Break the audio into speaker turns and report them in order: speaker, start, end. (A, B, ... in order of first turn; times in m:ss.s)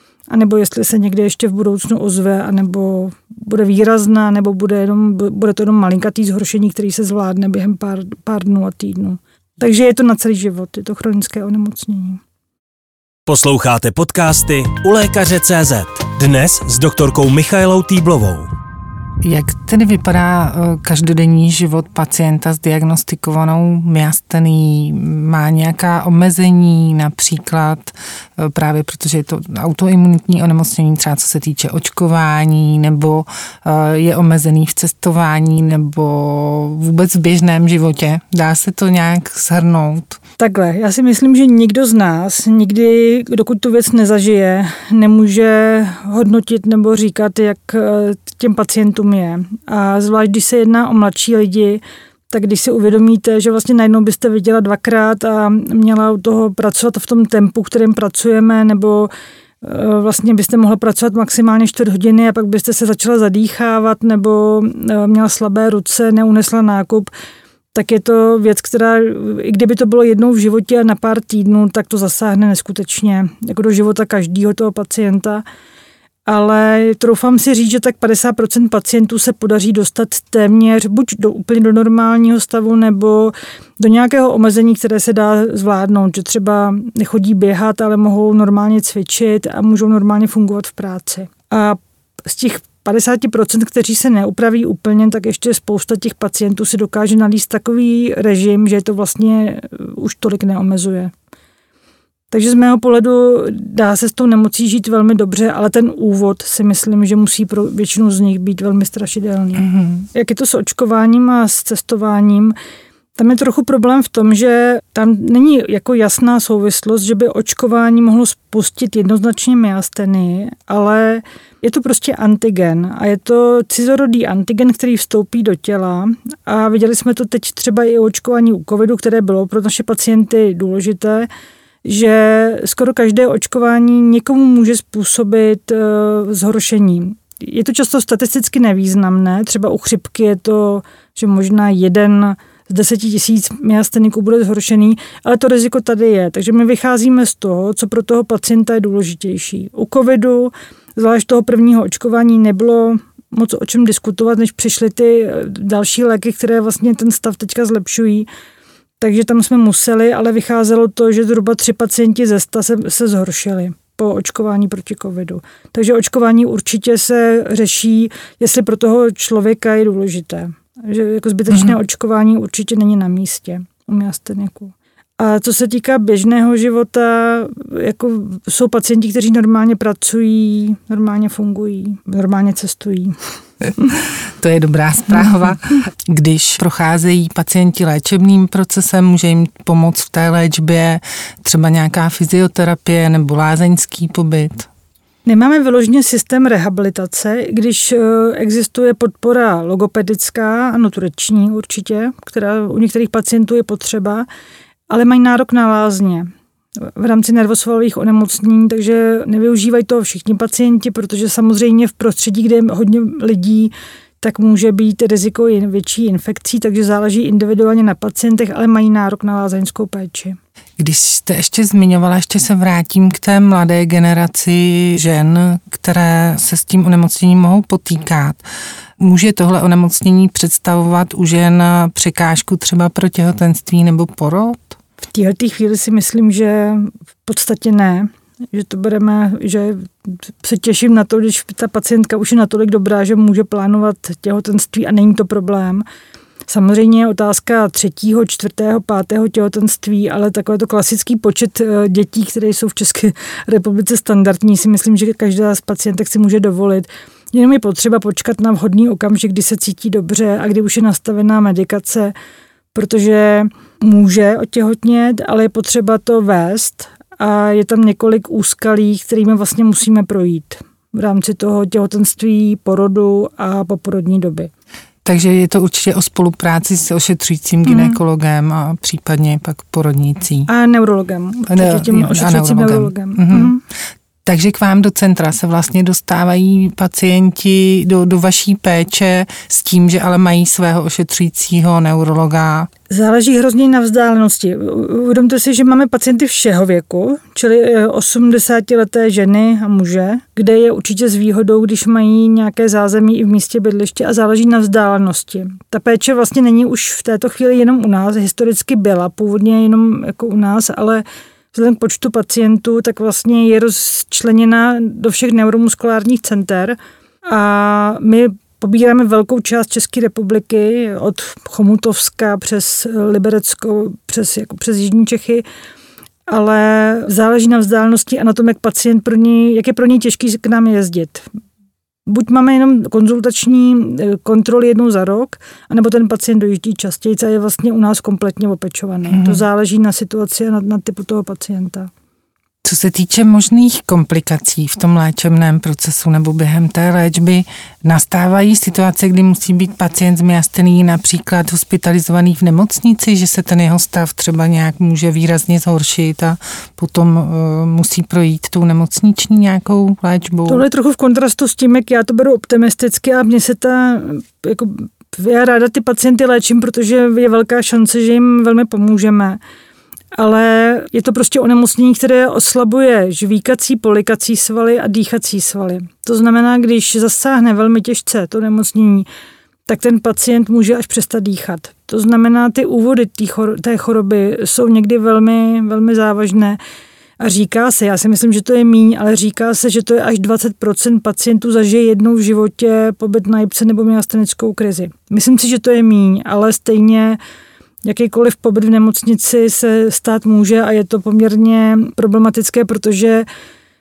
0:00.3-0:12.2 A
0:13.3-0:18.5 B
0:19.2-0:40.2 C
0:40.4-1:07.1 A
1:07.7-1:15.4 A
1:16.2-1:41.1 A
1:42.3-1:52.6 A
1:49.6-1:50.1 C
1:53.2-2:11.3 A
2:11.8-2:38.3 A
2:39.0-3:03.1 A
3:04.4-3:14.7 C
3:15.2-3:24.3 A
3:24.9-3:26.3 A
3:26.9-3:40.4 A
3:40.8-3:48.4 C
3:49.0-3:54.8 C
3:55.0-4:05.8 A
4:06.5-4:22.1 A
4:22.7-4:34.5 A
4:35.0-4:40.5 C
4:37.7-4:38.0 A
4:40.5-4:43.6 A
4:41.5-4:43.6 C
4:44.2-4:52.7 C
4:52.9-5:25.4 A
5:26.3-5:31.3 A
5:32.1-5:41.9 A
5:39.1-5:39.4 C
5:42.6-6:00.6 C
6:00.5-6:09.4 A
6:10.1-6:19.1 A
6:19.7-6:26.6 A
6:27.2-6:37.2 A
6:37.8-6:43.3 A